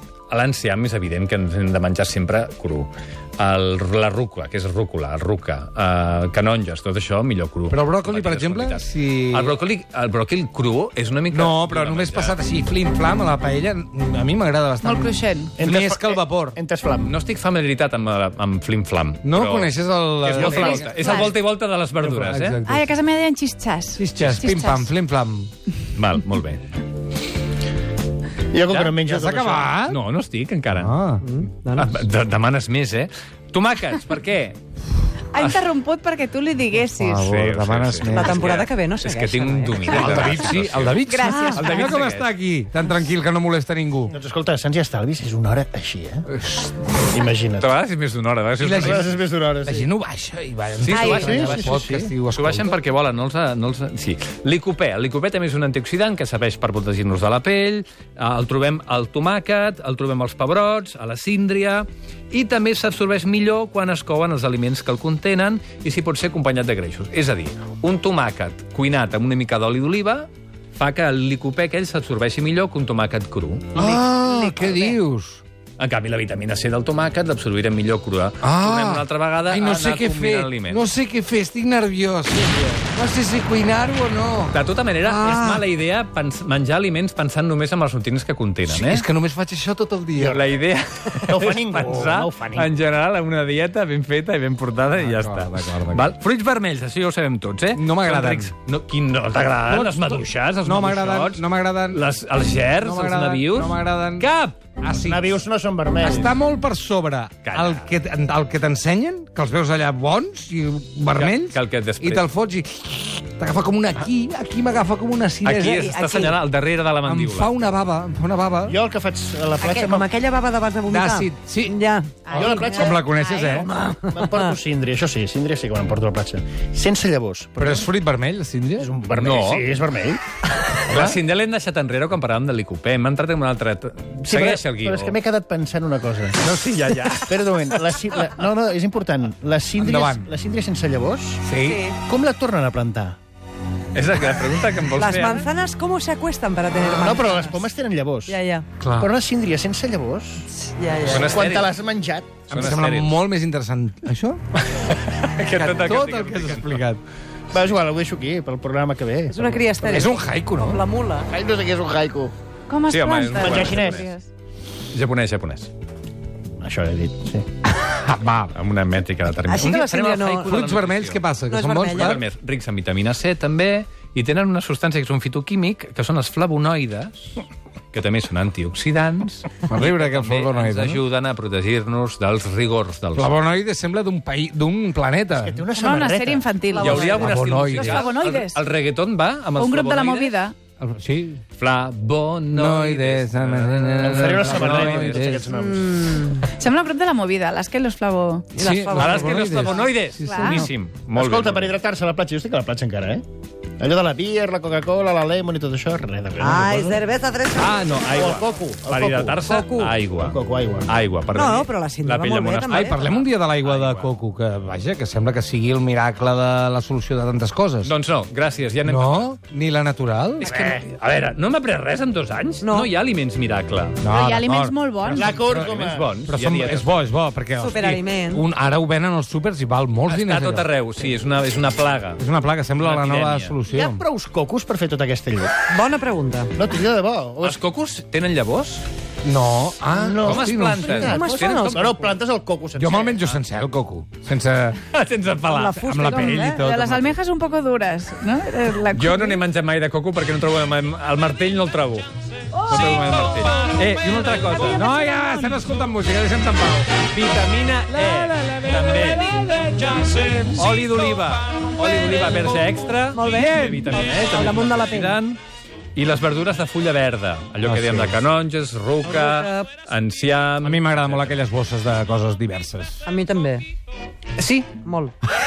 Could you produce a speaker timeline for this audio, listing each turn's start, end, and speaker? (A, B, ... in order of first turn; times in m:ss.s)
0:00.3-0:12.4 A
0:07.7-0:09.6 B
0:11.3-0:16.6 B
0:14.8-0:15.6 C
0:15.6-0:17.2 D
0:17.0-0:22.6 A
0:19.2-0:20.9 B
0:20.3-0:21.3 C
0:22.0-0:22.9 B
0:22.6-0:24.9 C
0:24.0-0:25.5 B
0:25.9-0:26.6 A
0:28.5-0:29.7 D
0:28.7-0:29.0 A
0:29.1-0:30.0 B
0:29.9-0:31.0 A
0:30.7-0:31.2 B
0:31.2-0:32.0 E
0:31.7-0:34.6 A
0:35.3-0:37.3 C
0:35.4-0:35.6 A
0:36.9-0:38.6 B
0:37.2-0:41.0 A
0:38.1-0:40.1 E
0:39.9-0:44.1 B
0:40.0-0:40.4 C
0:40.1-0:40.8 D
0:41.0-0:41.9 C
0:41.2-0:41.7 E
0:41.6-0:42.3 A
0:44.1-0:46.3 D
0:46.3-0:46.7 B
0:47.0-0:47.7 D
0:47.6-0:49.2 A
0:48.6-0:49.1 B
0:48.8-0:49.9 D
0:49.6-0:52.8 B
0:50.8-1:14.0 A
0:50.9-0:51.4 C
0:51.1-0:52.1 D
1:13.7-1:15.4 B
1:14.4-1:14.9 E
1:15.8-1:20.8 A
1:18.4-1:25.6 B
1:24.5-1:29.0 A
1:28.7-1:30.4 B
1:30.2-1:30.4 D
1:30.2-1:44.8 A
1:31.2-1:32.7 D
1:35.0-1:36.1 B
1:37.7-1:38.5 B
1:39.6-1:42.0 B
1:42.8-1:44.3 B
1:44.8-1:45.4 B
1:45.0-1:46.2 D
1:46.0-1:56.0 B
1:46.0-1:46.3 A
1:47.4-1:47.9 A
1:51.1-1:52.3 A
1:55.4-1:57.5 A
1:55.7-1:56.4 E
1:57.0-1:58.8 B
1:58.6-2:00.1 D
1:59.6-2:02.3 E
2:00.9-2:01.8 B
2:02.2-2:03.7 C
2:02.3-2:03.7 B
2:02.3-2:07.8 D
2:03.6-2:04.5 E
2:07.6-2:08.9 B
2:08.8-2:10.2 D
2:09.1-2:09.8 A
2:10.9-2:11.2 D
2:10.9-2:15.2 A
2:14.2-2:16.4 D
2:16.3-2:17.5 A
2:17.2-2:21.4 D
2:19.8-2:20.3 B
2:21.4-2:21.8 B
2:21.6-2:22.0 E
2:22.0-2:23.2 D
2:23.9-2:25.5 A
2:24.9-2:27.6 E
2:26.8-2:28.4 D
2:28.3-2:28.6 E
2:28.8-2:29.1 B
2:29.0-2:30.4 D
2:30.5-2:31.4 E
2:31.0-2:31.7 A
2:31.1-2:32.4 D
2:32.5-2:33.2 A
2:32.5-2:34.4 B
2:34.6-2:36.8 A
2:35.5-2:37.0 B
2:37.5-2:40.1 D
2:39.3-2:41.3 E
2:39.8-2:40.8 B
2:41.3-2:42.3 D
2:42.7-2:44.3 C
2:42.9-2:44.1 A
2:43.3-2:44.1 D
2:44.9-2:45.7 A
2:46.6-2:47.4 D
2:47.8-2:48.5 B
2:48.5-2:51.2 A
2:49.5-2:50.6 E
2:50.4-2:52.2 B
2:51.5-2:52.2 E
2:51.9-3:03.3 A
2:59.7-3:01.0 B
3:03.1-3:05.6 B
3:05.3-3:07.2 D
3:05.7-3:07.0 C
3:06.7-3:07.5 E
3:06.8-3:10.3 A
3:07.0-3:08.1 B
3:07.8-3:08.6 C
3:09.5-3:10.5 C
3:10.8-3:11.4 B
3:11.6-3:15.3 A
3:12.5-3:15.5 B
3:14.0-3:16.0 D
3:15.4-3:16.5 E
3:16.5-3:18.5 C
3:18.5-3:19.7 E
3:18.6-3:19.9 B
3:18.9-3:21.7 A
3:20.2-3:20.7 C
3:21.1-3:23.2 D
3:23.8-3:27.0 D
3:26.4-3:27.8 E
3:27.6-3:34.1 A
3:28.1-3:29.5 D
3:29.5-3:29.9 E
3:30.2-3:30.9 D
3:31.3-3:33.1 E
3:32.7-3:37.9 B
3:37.8-3:39.2 A
3:38.8-3:40.5 B
3:40.4-3:44.0 A
3:40.4-3:40.8 D
3:42.6-3:42.9 E
3:44.0-3:45.7 B
3:44.1-3:45.3 C
3:45.1-3:46.1 D
3:45.2-3:46.9 A
3:46.3-3:50.7 B
3:47.6-3:48.5 E
3:50.0-3:52.2 A
3:52.2-3:54.0 B
3:52.8-3:53.5 A
3:53.7-3:55.5 D
3:55.7-3:56.6 E
3:56.6-3:57.6 D
3:57.4-3:58.8 A
3:59.2-4:01.2 B
4:00.0-4:03.3 D
4:00.2-4:02.2 A
4:00.9-4:01.9 E
4:02.8-4:04.8 B
4:04.9-4:06.4 A
4:05.5-4:06.6 E
4:05.8-4:07.2 B
4:06.1-4:09.4 C
4:08.9-4:12.0 A
4:12.6-4:14.8 A
4:12.7-4:13.1 C
4:14.7-4:16.9 B
4:15.0-4:15.6 C
4:16.9-4:19.2 A
4:17.9-4:20.3 B
4:20.1-4:25.4 A
4:23.1-4:25.2 E
4:23.3-4:24.0 B
4:26.0-4:31.4 A
4:27.6-4:28.2 B
4:29.0-4:29.7 E
4:30.6-4:33.0 B
4:33.0-4:33.6 E
4:34.4-4:34.8 A
4:34.7-4:35.1 E